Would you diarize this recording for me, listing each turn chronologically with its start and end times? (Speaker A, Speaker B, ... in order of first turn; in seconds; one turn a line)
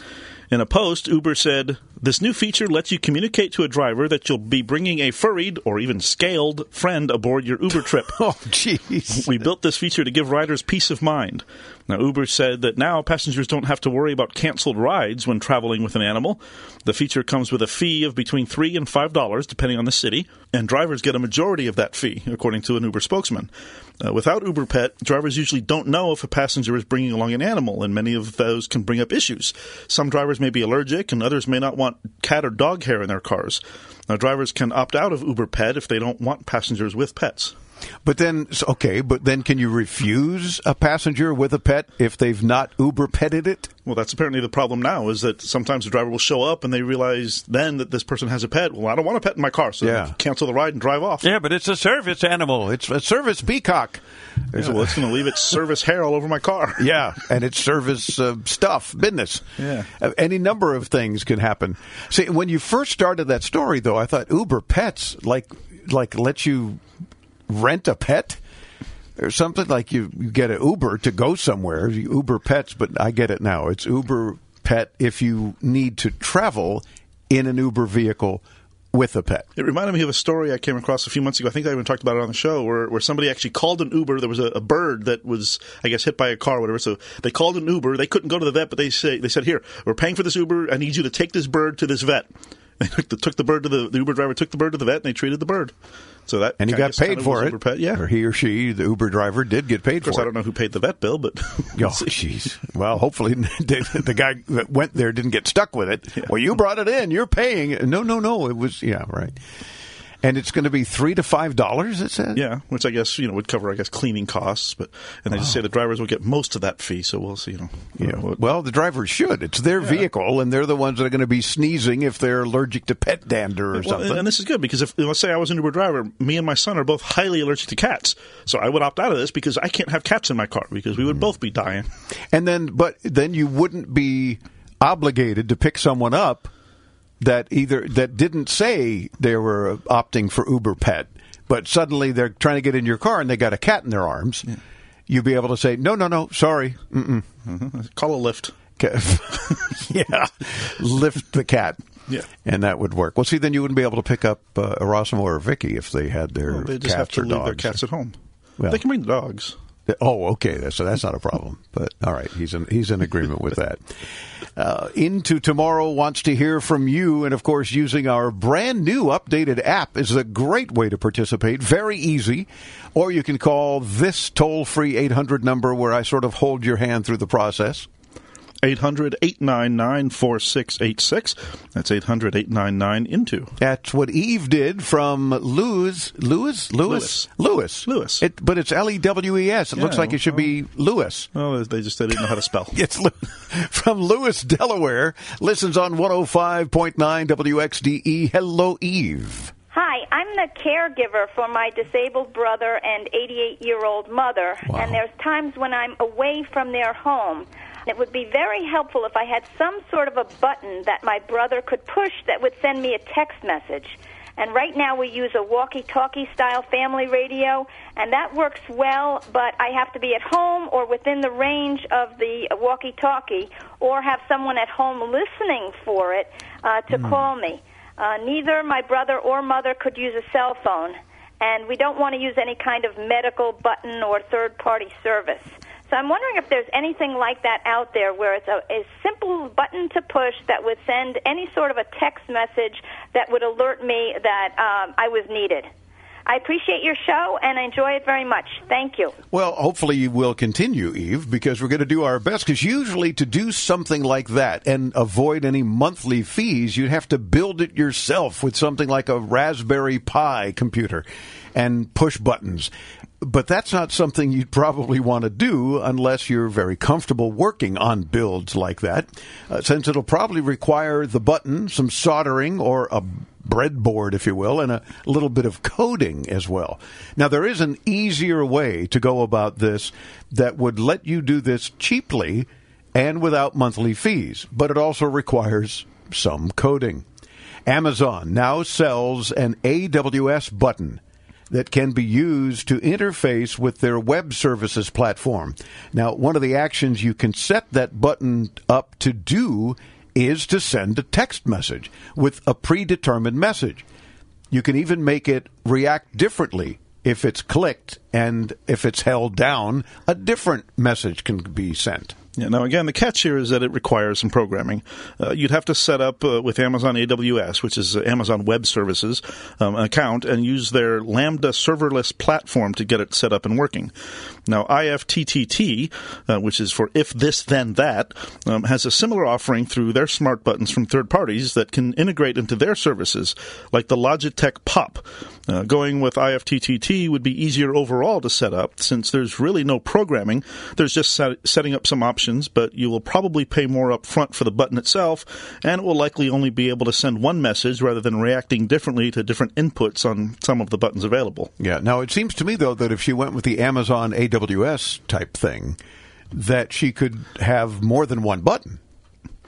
Speaker A: 0.5-8.2
Speaker B: 8.2-9.4
Speaker A: 9.1-23.5
Speaker A: 24.0-37.5
Speaker B: 38.0-43.7
Speaker A: 43.9-51.3
Speaker B: 49.8-50.1
Speaker B: 51.2-55.0
Speaker A: 54.5-56.9
Speaker B: 56.8-59.5
Speaker A: 59.6-59.9
Speaker B: 60.0-66.8
Speaker B: 67.5-68.4
Speaker B: 69.2-79.5
Speaker A: 79.6-92.3
Speaker A: 92.8-95.7
Speaker A: 96.3-98.0
Speaker B: 96.6-100.3
Speaker A: 100.0-102.1
Speaker B: 101.8-109.4
Speaker B: 110.2-112.4
Speaker A: 112.3-118.3
Speaker B: 118.0-124.3
Speaker A: 123.8-131.9
Speaker B: 132.3-136.5
Speaker B: 137.2-144.5
Speaker B: 145.1-147.3
Speaker A: 147.5-148.6
Speaker B: 148.8-151.8
Speaker B: 152.4-157.8
Speaker A: 156.5-159.6
Speaker B: 159.9-163.9
Speaker B: 164.6-177.9
Speaker A: 178.6-183.5
Speaker B: 183.6-191.3
Speaker A: 186.9-187.3
Speaker A: 187.9-188.2
Speaker A: 189.8-190.5
Speaker A: 191.3-192.8
Speaker B: 192.7-199.5
Speaker C: 199.7-245.7
Speaker B: 204.7-205.0
Speaker C: 246.3-249.2
Speaker B: 249.3-287.1
Speaker B: 287.7-303.9
Speaker B: 304.5-312.2
Speaker A: 312.4-323.9
Speaker A: 324.5-351.5
Speaker B: 351.6-355.8
Speaker B: 356.3-358.8